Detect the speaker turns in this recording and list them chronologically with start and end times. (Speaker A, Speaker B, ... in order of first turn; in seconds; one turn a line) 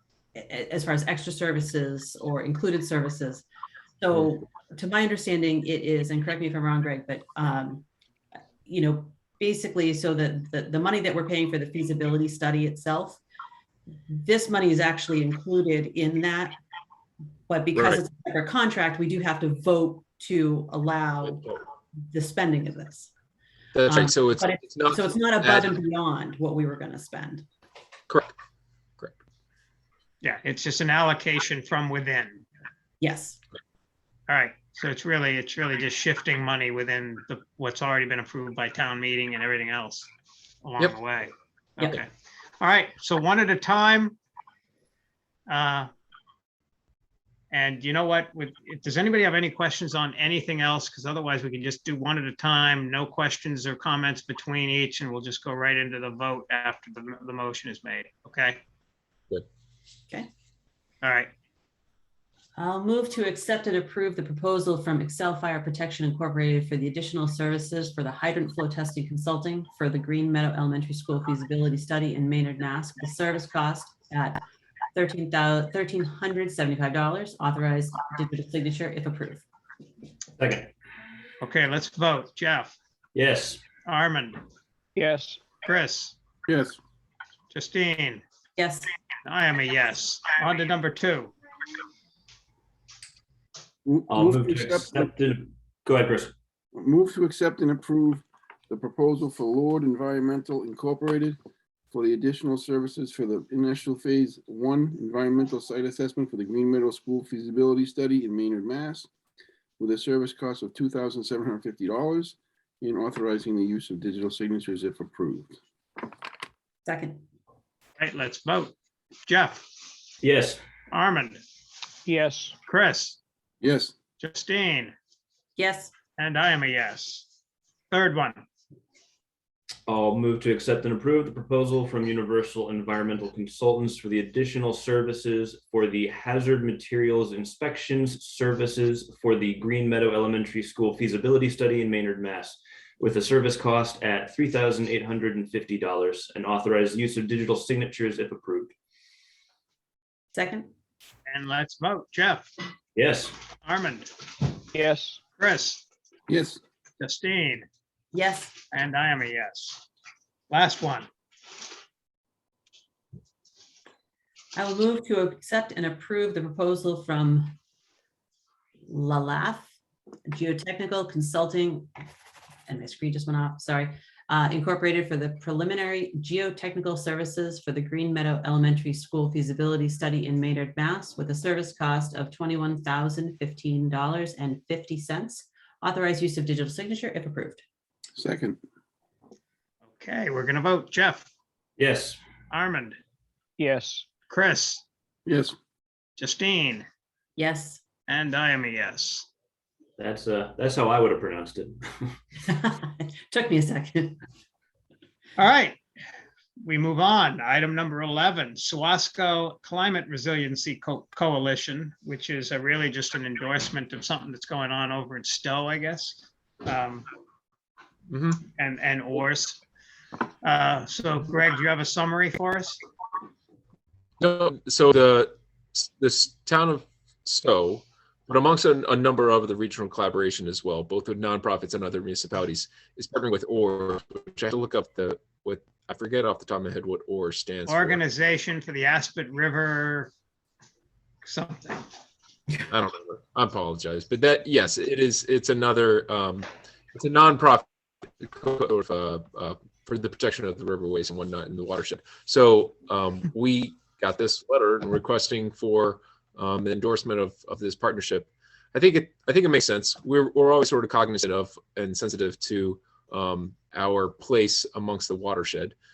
Speaker A: 0.3-3.5
Speaker A: 4.0-7.8
Speaker A: 8.7-13.2
Speaker A: 14.1-16.6
Speaker A: 17.5-23.1
Speaker B: 23.7-25.7
Speaker A: 23.9-27.5
Speaker C: 30.2-32.4
Speaker A: 33.0-33.4
Speaker C: 34.3-40.1
Speaker C: 40.6-42.1
Speaker C: 42.6-44.2
Speaker C: 45.5-45.9
Speaker C: 47.5-58.6
Speaker C: 61.0-61.3
Speaker A: 62.6-74.4
Speaker A: 74.9-79.5
Speaker D: 80.4-80.7
Speaker C: 81.4-82.7
Speaker D: 83.2-83.7
Speaker C: 83.8-84.4
Speaker E: 85.0-85.4
Speaker C: 85.6-86.2
Speaker F: 86.5-86.8
Speaker C: 87.5-88.2
Speaker A: 88.6-88.9
Speaker C: 89.2-91.3
Speaker F: 93.8-95.1
Speaker D: 94.1-96.3
Speaker F: 96.7-101.4
Speaker F: 101.9-109.1
Speaker F: 109.8-115.6
Speaker A: 116.8-117.2
Speaker C: 118.0-118.7
Speaker C: 119.3-119.6
Speaker D: 120.2-120.6
Speaker C: 120.9-121.4
Speaker E: 122.1-122.6
Speaker C: 122.7-123.2
Speaker F: 123.6-124.0
Speaker C: 124.2-124.9
Speaker A: 125.6-125.9
Speaker C: 126.2-127.2
Speaker C: 127.9-128.4
Speaker D: 129.9-148.7
Speaker A: 150.3-150.7
Speaker C: 151.3-152.5
Speaker D: 153.0-153.4
Speaker C: 153.7-154.5
Speaker E: 154.7-155.2
Speaker C: 155.4-155.8
Speaker F: 156.3-156.6
Speaker C: 157.0-157.7
Speaker A: 158.1-158.6
Speaker C: 158.7-159.8
Speaker C: 160.5-161.1
Speaker A: 164.6-167.6
Speaker A: 168.9-169.7
Speaker A: 170.3-171.9
Speaker A: 172.7-187.6
Speaker F: 188.2-188.6
Speaker C: 190.0-191.3
Speaker D: 191.8-192.2
Speaker C: 192.5-193.0
Speaker E: 193.6-194.1
Speaker C: 194.2-194.8
Speaker F: 195.3-195.6
Speaker C: 196.2-196.8
Speaker A: 197.4-197.8
Speaker C: 198.1-199.3
Speaker D: 200.0-202.1
Speaker A: 202.4-204.2
Speaker C: 205.4-205.8
Speaker C: 206.6-217.1
Speaker B: 218.1-218.5
Speaker C: 218.6-219.6
Speaker C: 220.4-222.8
Speaker B: 224.2-238.0
Speaker C: 237.7-240.1
Speaker C: 241.2-241.9
Speaker B: 242.5-265.7